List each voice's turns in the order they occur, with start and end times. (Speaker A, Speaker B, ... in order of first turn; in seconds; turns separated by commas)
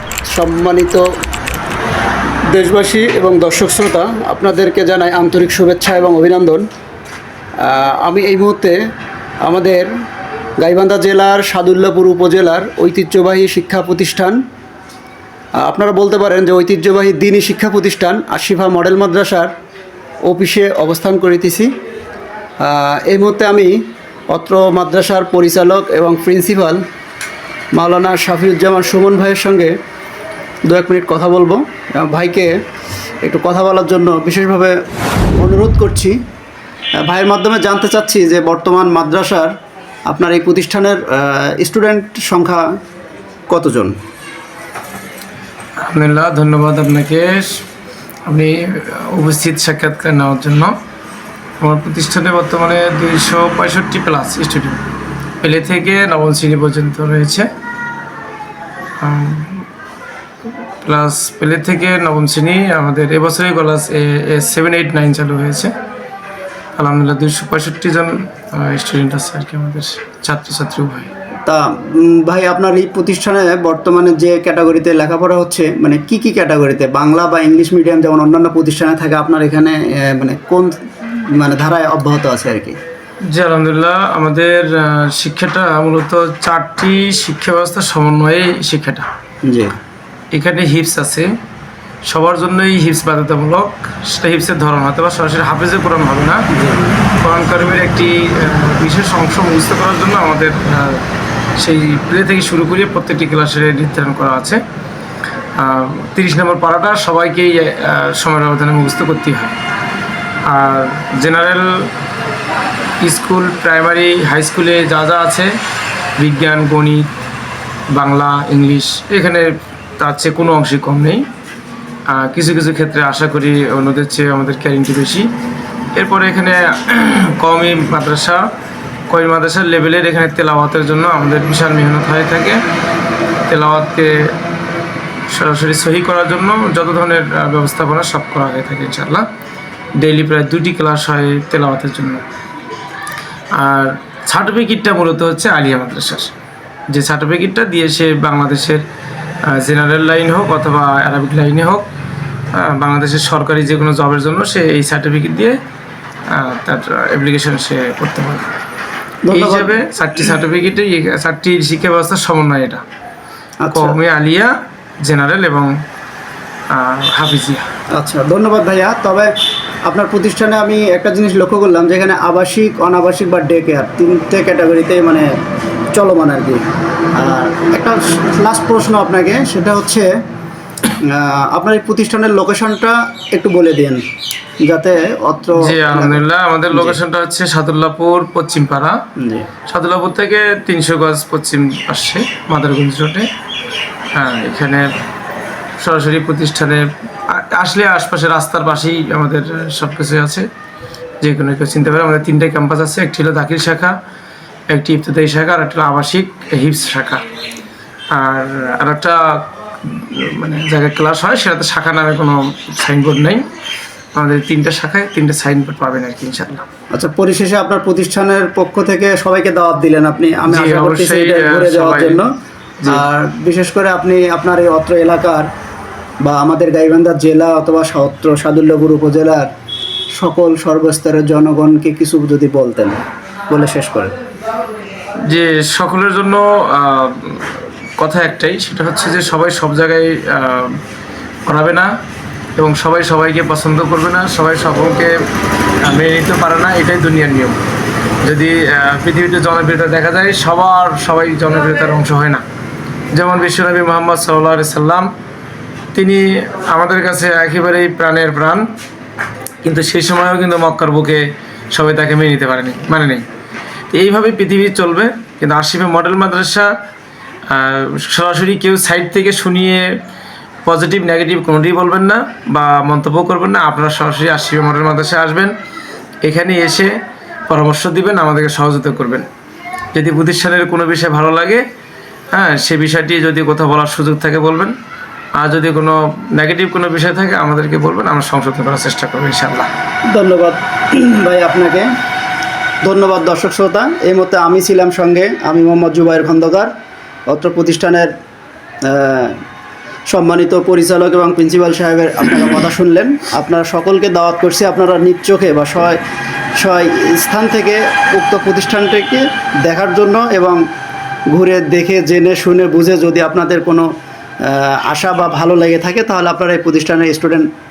Speaker A: 0.3-1.0, Speaker A: 2.5-6.6, Speaker A: 7.6-8.8, Speaker A: 9.4-9.9, Speaker A: 10.6-14.4, Speaker A: 15.6-19.5, Speaker A: 20.2-21.7, Speaker A: 22.6-23.8, Speaker A: 24.3-26.8, Speaker A: 27.7-29.7, Speaker A: 30.7-32.5, Speaker A: 33.2-34.8, Speaker A: 35.4-36.1, Speaker A: 37.0-39.5, Speaker A: 40.1-42.6, Speaker A: 43.5-43.9, Speaker B: 45.8-47.6, Speaker B: 48.3-50.7, Speaker B: 51.6-54.8, Speaker B: 55.4-57.5, Speaker B: 59.0-59.7, Speaker B: 60.8-65.7, Speaker B: 66.8-71.1, Speaker A: 71.5-82.8, Speaker B: 83.3-89.1, Speaker A: 89.5-89.7, Speaker B: 90.3-91.3, Speaker B: 92.0-96.4, Speaker A: 96.5-97.0, Speaker B: 97.2-101.0, Speaker B: 101.6-104.6, Speaker B: 105.6-109.5, Speaker B: 110.5-111.8, Speaker B: 113.0-115.5, Speaker B: 116.2-117.0, Speaker B: 117.9-119.5, Speaker B: 120.0-121.2, Speaker B: 122.1-125.2, Speaker B: 126.0-128.4, Speaker B: 129.1-132.6, Speaker B: 133.5-134.3, Speaker B: 135.3-139.2, Speaker B: 140.0-142.2, Speaker B: 143.5-146.3, Speaker B: 146.9-148.8, Speaker B: 149.5-151.8, Speaker B: 152.5-155.6, Speaker B: 156.3-158.4, Speaker A: 159.2-159.8, Speaker B: 159.3-162.8, Speaker A: 163.6-164.0, Speaker B: 163.7-165.7, Speaker B: 166.7-167.6, Speaker A: 167.9-169.3, Speaker A: 169.8-175.3, Speaker A: 175.9-176.6, Speaker A: 177.2-180.1, Speaker A: 181.1-184.0, Speaker A: 184.7-186.2, Speaker B: 185.5-189.0, Speaker A: 186.7-187.0, Speaker A: 189.2-189.5, Speaker B: 189.7-193.3, Speaker B: 194.1-194.9, Speaker B: 195.8-200.4, Speaker B: 201.2-203.9, Speaker B: 204.7-207.2, Speaker B: 208.1-213.4, Speaker B: 214.1-216.6, Speaker A: 216.9-222.3, Speaker B: 220.5-222.2, Speaker A: 222.8-225.5, Speaker A: 226.2-229.5, Speaker A: 230.2-234.1, Speaker B: 235.3-240.8, Speaker B: 241.5-241.9, Speaker B: 242.6-245.1, Speaker B: 245.8-247.6, Speaker B: 248.2-252.4, Speaker B: 253.2-255.1, Speaker B: 255.9-258.6, Speaker B: 259.6-263.2, Speaker B: 263.9-266.7, Speaker B: 267.5-269.9, Speaker B: 270.6-275.5, Speaker B: 276.2-276.9, Speaker B: 277.5-279.3, Speaker B: 279.9-281.6, Speaker B: 282.3-284.7, Speaker B: 285.4-289.7, Speaker A: 290.1-291.9, Speaker A: 292.8-296.7, Speaker A: 297.3-298.1, Speaker A: 298.8-299.4, Speaker A: 300.1-306.0, Speaker A: 306.6-310.6, Speaker A: 311.3-313.9, Speaker A: 314.4-317.5